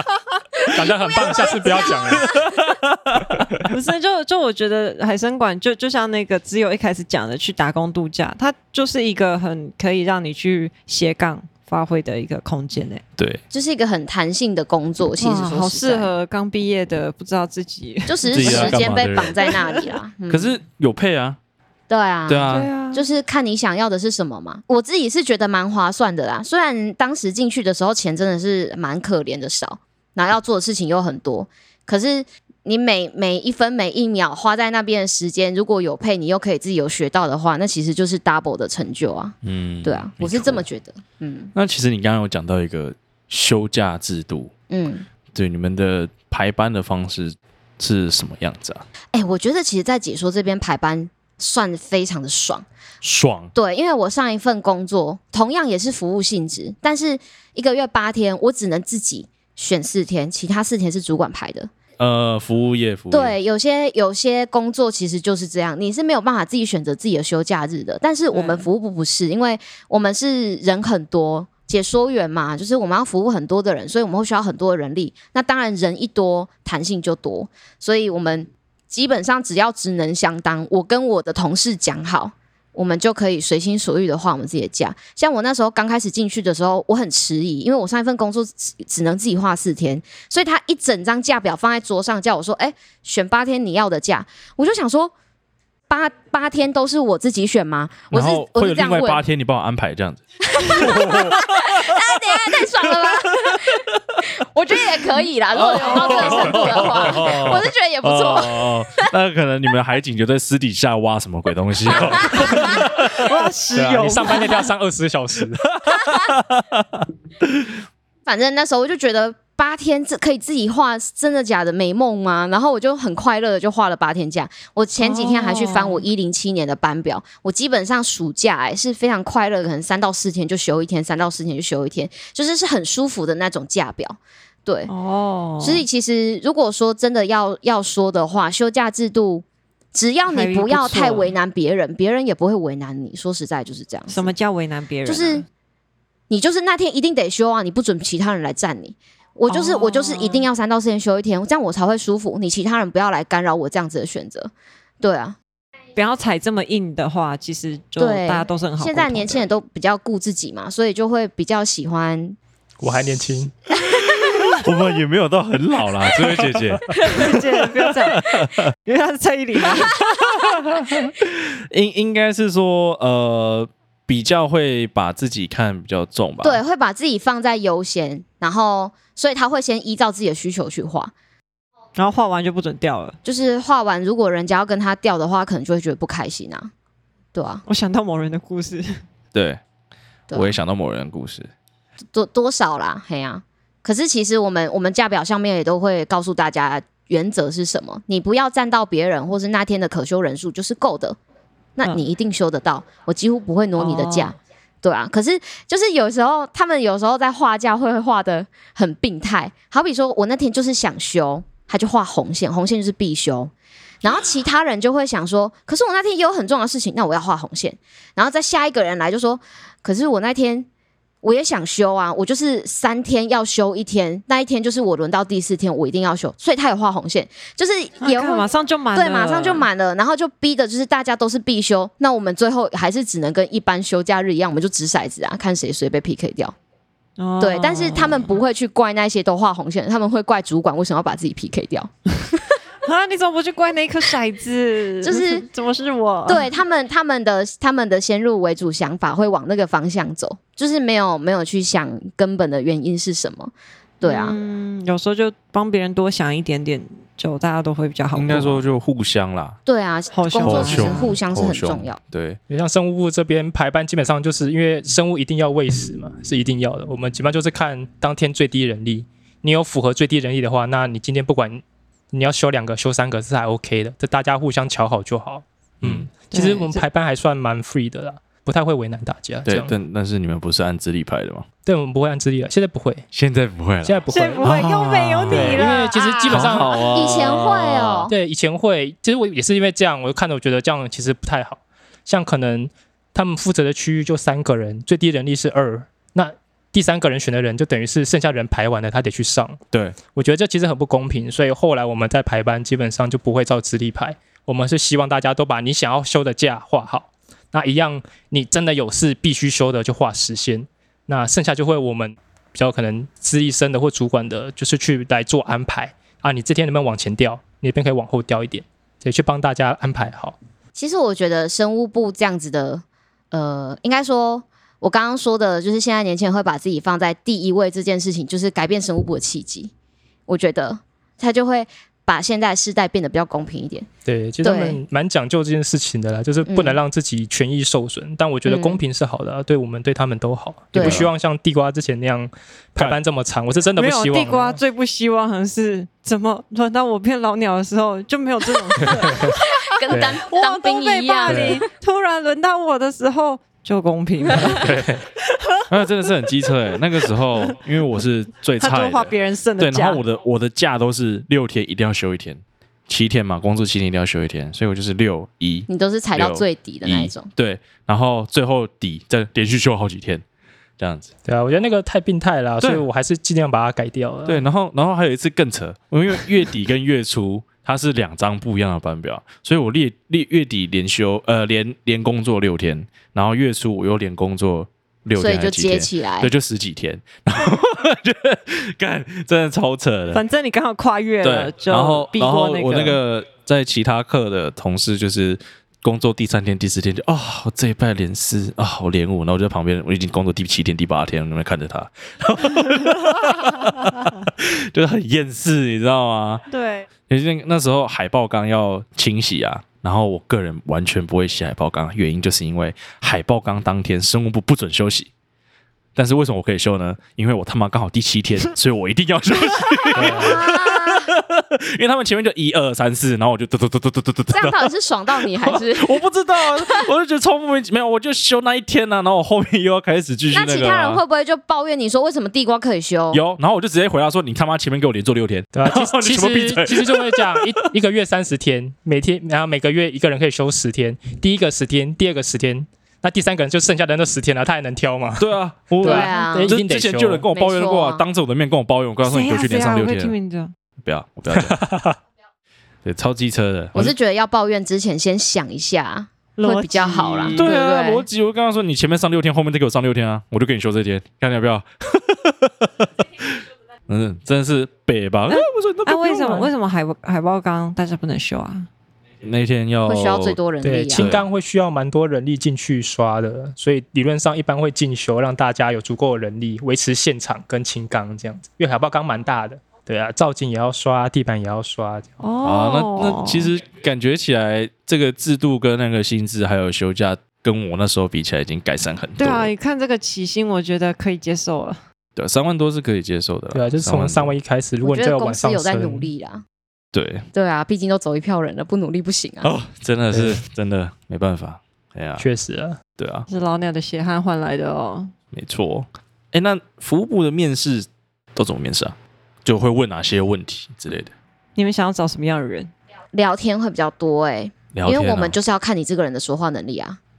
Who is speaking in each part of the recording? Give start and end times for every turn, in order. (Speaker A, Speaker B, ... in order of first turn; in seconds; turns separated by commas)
Speaker A: 0.6-2.4, Speaker B: 0.7-2.4, Speaker C: 2.5-3.5, Speaker D: 3.6-13.0, Speaker C: 13.2-13.4, Speaker A: 13.5-16.1, Speaker D: 15.2-19.8, Speaker A: 18.1-20.5, Speaker C: 18.3-19.4, Speaker C: 20.3-21.4, Speaker A: 21.9-41.5, Speaker C: 22.3-22.7, Speaker D: 22.5-23.1, Speaker C: 39.4-40.6, Speaker C: 41.5-44.5, Speaker A: 44.7-45.0, Speaker C: 45.3-48.8, Speaker A: 49.1-52.6, Speaker C: 53.0-53.5, Speaker A: 53.5-61.7, Speaker C: 62.0-63.3, Speaker A: 63.1-95.1, Speaker D: 68.3-68.7, Speaker A: 95.9-99.2, Speaker C: 98.1-103.8, Speaker A: 100.5-109.1, Speaker C: 105.5-113.3, Speaker D: 105.6-107.2, Speaker A: 112.1-112.7, Speaker D: 112.4-114.7, Speaker B: 113.7-115.7, Speaker C: 115.8-117.0, Speaker A: 118.2-134.9, Speaker D: 125.0-126.0, Speaker D: 134.9-135.8, Speaker A: 135.6-144.3, Speaker D: 140.3-141.3, Speaker D: 144.1-145.4, Speaker A: 145.1-145.4, Speaker A: 146.3-155.4, Speaker D: 149.5-150.5, Speaker D: 155.9-159.4, Speaker A: 158.0-162.4, Speaker B: 162.8-163.5, Speaker A: 163.8-164.5, Speaker C: 164.1-167.4, Speaker D: 167.0-169.9, Speaker A: 167.0-167.3, Speaker C: 167.9-168.7, Speaker C: 170.0-176.6, Speaker A: 176.4-181.1, Speaker D: 181.9-183.2, Speaker A: 183.2-186.7, Speaker A: 187.3-187.6, Speaker D: 187.7-189.0, Speaker C: 189.3-189.6, Speaker A: 190.3-190.5, Speaker C: 190.3-191.5, Speaker A: 192.1-201.2, Speaker A: 201.8-213.5, Speaker D: 203.8-204.3, Speaker A: 214.0-220.7, Speaker A: 221.2-236.5, Speaker D: 228.0-229.7, Speaker D: 237.2-238.3, Speaker A: 237.4-242.4, Speaker D: 242.8-246.6, Speaker A: 245.0-245.4, Speaker A: 246.3-254.3, Speaker D: 254.0-258.6, Speaker C: 258.1-259.6, Speaker A: 259.6-262.0, Speaker D: 260.1-261.2, Speaker C: 260.4-262.4, Speaker B: 262.5-279.7, Speaker C: 275.8-276.1, Speaker D: 276.3-276.8, Speaker C: 279.4-281.4, Speaker B: 281.6-283.0, Speaker C: 283.1-285.7, Speaker B: 283.8-284.7, Speaker D: 284.1-286.0, Speaker B: 285.3-286.7, Speaker A: 285.9-288.1, Speaker C: 286.3-288.1, Speaker B: 288.1-299.6, Speaker C: 299.7-300.0, Speaker B: 300.1-320.4, Speaker A: 320.7-329.7, Speaker A: 330.3-333.9, Speaker B: 334.1-344.6, Speaker A: 334.4-334.8, Speaker A: 336.4-336.8, Speaker A: 338.4-338.8, Speaker A: 340.7-341.1, Speaker C: 340.8-341.1, Speaker D: 343.7-354.7, Speaker B: 348.9-349.4, Speaker A: 349.4-351.6, Speaker B: 349.9-350.2, Speaker B: 351.3-351.6, Speaker C: 354.5-355.0, Speaker C: 355.7-370.2, Speaker D: 358.6-360.0, Speaker A: 365.7-367.3, Speaker C: 370.8-371.1, Speaker B: 371.2-374.4, Speaker C: 374.2-390.2, Speaker A: 385.2-386.3, Speaker D: 390.1-393.0, Speaker C: 391.2-406.4, Speaker D: 406.5-406.9, Speaker C: 407.1-415.1, Speaker C: 415.9-424.7, Speaker B: 419.9-420.4, Speaker A: 419.9-421.1, Speaker A: 424.3-426.9, Speaker C: 425.2-431.0, Speaker A: 430.3-433.2, Speaker C: 433.1-437.5, Speaker B: 435.5-447.3, Speaker C: 445.2-450.1, Speaker A: 445.8-446.6, Speaker A: 447.3-448.0, Speaker D: 449.0-450.5, Speaker C: 450.8-451.6, Speaker B: 451.3-452.0, Speaker C: 452.8-453.9, Speaker A: 453.7-458.1, Speaker D: 456.4-457.5, Speaker C: 457.3-463.4, Speaker C: 463.9-466.5, Speaker D: 465.3-468.7, Speaker C: 469.2-470.4, Speaker A: 469.9-471.2, Speaker B: 470.6-482.1, Speaker C: 470.9-471.2, Speaker D: 482.2-483.5, Speaker C: 482.4-489.5, Speaker D: 489.2-491.8, Speaker C: 492.1-494.3, Speaker B: 493.5-496.1, Speaker A: 494.8-496.4, Speaker C: 496.9-497.2, Speaker A: 497.3-499.5, Speaker C: 499.4-502.2, Speaker B: 500.1-500.4, Speaker B: 502.2-502.8, Speaker C: 503.0-503.3, Speaker D: 503.3-505.1, Speaker C: 505.3-511.1, Speaker D: 511.6-512.7, Speaker A: 513.1-517.0, Speaker C: 514.7-515.4